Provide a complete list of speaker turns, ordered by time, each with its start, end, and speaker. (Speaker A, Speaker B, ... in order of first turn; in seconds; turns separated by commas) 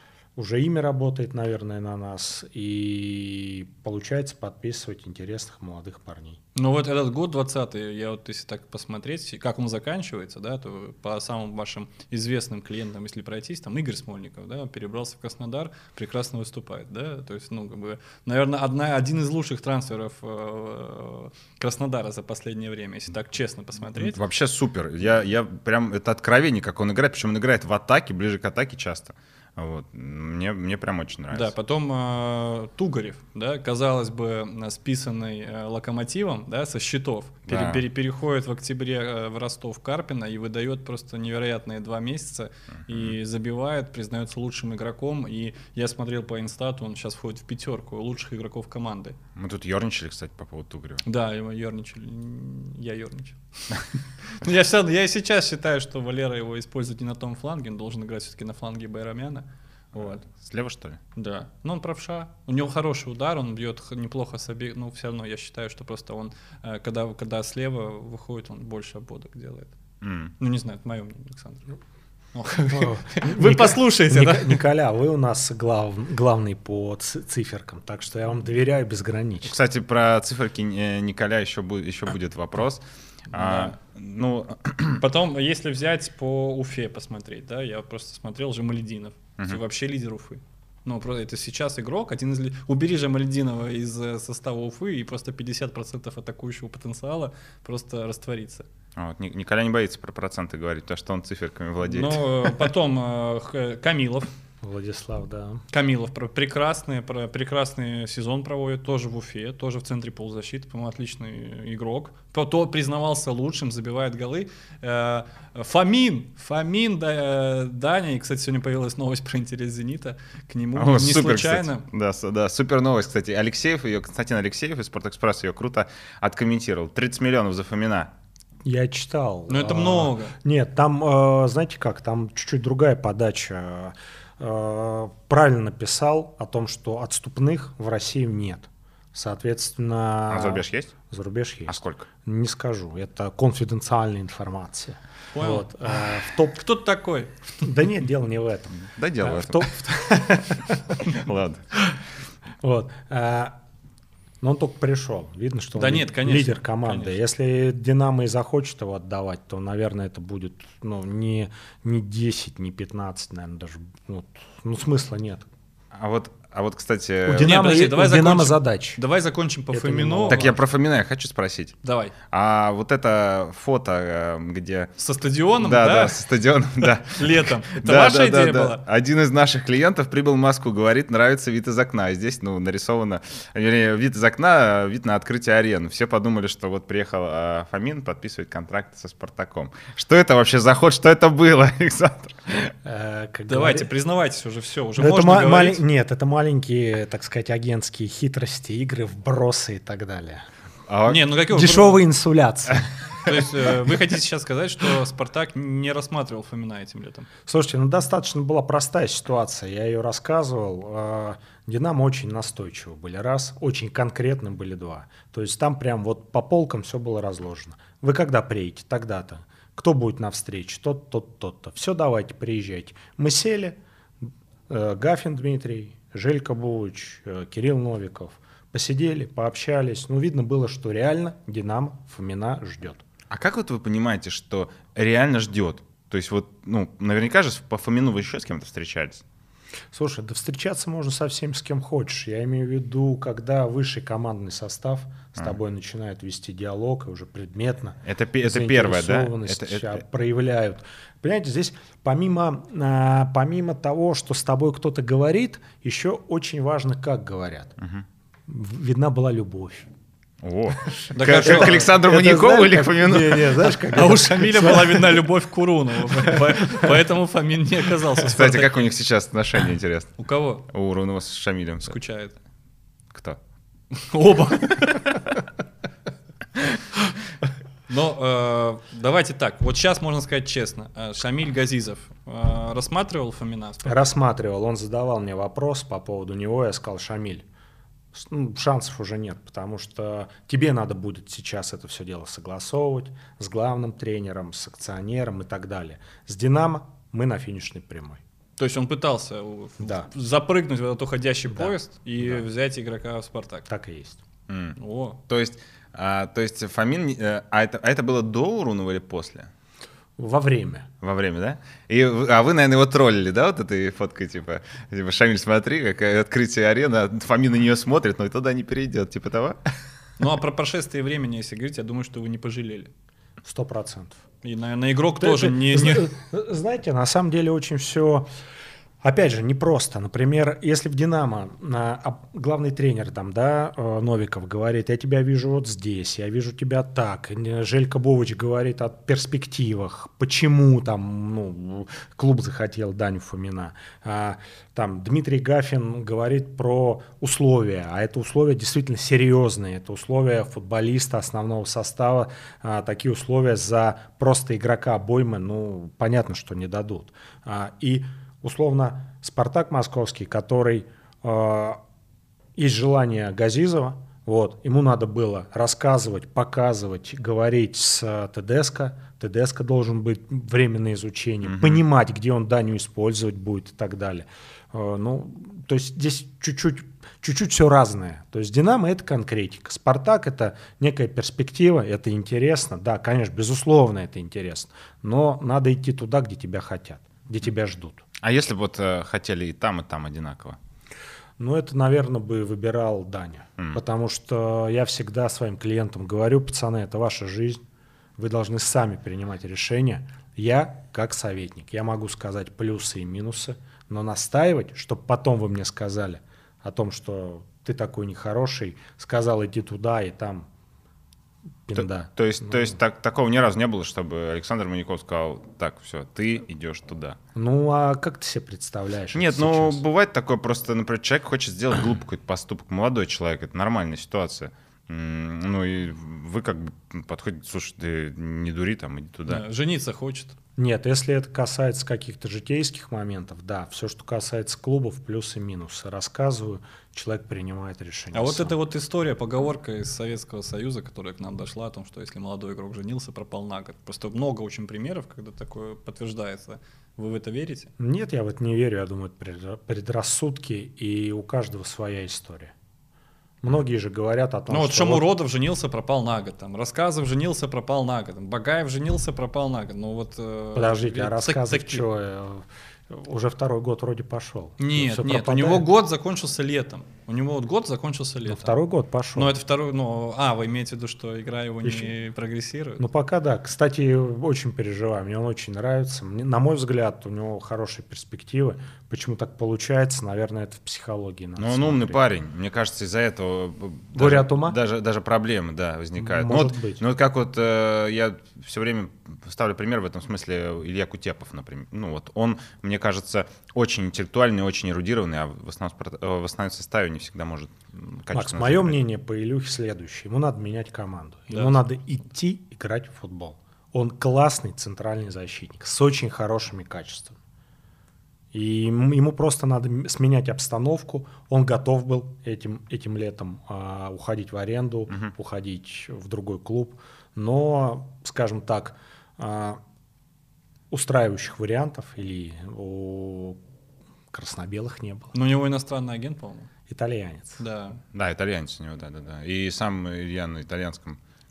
Speaker A: 0.3-6.4, Speaker B: 6.5-24.2, Speaker C: 23.9-31.5, Speaker B: 31.3-49.2, Speaker C: 37.5-37.8, Speaker C: 42.9-43.1, Speaker C: 49.4-51.0, Speaker B: 51.0-60.2, Speaker C: 60.0-61.0, Speaker B: 61.1-69.7, Speaker C: 70.0-70.3, Speaker B: 70.4-71.6, Speaker B: 72.3-74.6, Speaker A: 72.7-79.5, Speaker C: 79.4-85.0, Speaker B: 83.3-83.7, Speaker B: 85.0-98.7, Speaker C: 99.0-102.6, Speaker B: 101.8-104.3, Speaker A: 104.6-105.6, Speaker B: 105.7-121.8, Speaker C: 120.7-128.1, Speaker A: 128.6-146.6, Speaker B: 129.5-130.3, Speaker C: 140.3-140.9, Speaker C: 141.7-142.1, Speaker B: 145.3-147.5, Speaker A: 147.6-151.1, Speaker C: 148.9-149.7, Speaker C: 151.1-151.7, Speaker A: 152.6-153.6, Speaker A: 154.4-165.5, Speaker B: 155.7-157.1, Speaker C: 165.9-167.7, Speaker A: 167.2-169.0, Speaker B: 167.4-170.6, Speaker A: 169.7-170.5, Speaker C: 170.3-171.8, Speaker B: 171.8-172.1, Speaker C: 172.3-174.9, Speaker B: 175.0-176.2, Speaker C: 175.6-192.7, Speaker B: 176.8-178.8, Speaker A: 192.8-193.9, Speaker B: 193.5-195.8, Speaker A: 195.0-200.5, Speaker C: 200.9-201.2, Speaker B: 201.1-202.0, Speaker A: 201.5-203.5, Speaker B: 203.2-207.3, Speaker A: 207.5-223.8, Speaker A: 224.7-233.0, Speaker C: 233.3-239.2, Speaker A: 239.9-257.8, Speaker C: 248.0-250.0, Speaker C: 257.8-258.0, Speaker A: 258.5-259.9, Speaker C: 260.4-263.7, Speaker A: 260.9-265.2, Speaker B: 261.1-261.9, Speaker B: 263.9-268.8, Speaker A: 266.2-266.9, Speaker C: 268.3-271.9, Speaker B: 270.2-270.6, Speaker B: 271.8-272.3, Speaker C: 273.1-273.4, Speaker B: 273.9-275.2, Speaker B: 277.9-284.0, Speaker A: 283.8-287.4, Speaker A: 288.1-298.2, Speaker B: 298.6-303.7, Speaker A: 299.8-300.1, Speaker A: 301.5-301.7, Speaker A: 303.7-304.2, Speaker C: 304.5-309.5, Speaker B: 304.8-305.2, Speaker A: 310.2-310.9, Speaker C: 311.0-319.6, Speaker B: 320.2-322.9, Speaker A: 323.4-324.2, Speaker B: 324.4-326.1, Speaker A: 325.2-328.3, Speaker A: 329.0-361.8, Speaker A: 362.6-388.0, Speaker C: 371.4-371.8, Speaker C: 388.2-390.6, Speaker A: 391.4-397.6, Speaker A: 398.2-410.5, Speaker A: 411.7-412.8, Speaker C: 411.8-417.2, Speaker A: 417.3-419.8, Speaker C: 419.1-429.4, Speaker B: 429.3-430.4, Speaker A: 430.6-438.5, Speaker B: 438.1-447.7, Speaker A: 447.8-452.5, Speaker A: 453.4-455.0, Speaker B: 454.5-461.8, Speaker A: 460.5-465.7, Speaker B: 464.6-468.6, Speaker A: 468.2-469.3, Speaker B: 469.1-472.8, Speaker A: 471.6-471.9, Speaker A: 472.8-482.0, Speaker C: 481.4-498.8, Speaker A: 483.9-484.6, Speaker A: 486.0-486.8, Speaker A: 498.1-507.2, Speaker B: 501.3-501.6, Speaker A: 508.3-519.6, Speaker A: 520.7-523.4, Speaker A: 524.1-525.1, Speaker B: 525.1-526.5, Speaker A: 526.7-527.4, Speaker B: 527.4-527.8, Speaker C: 527.9-531.0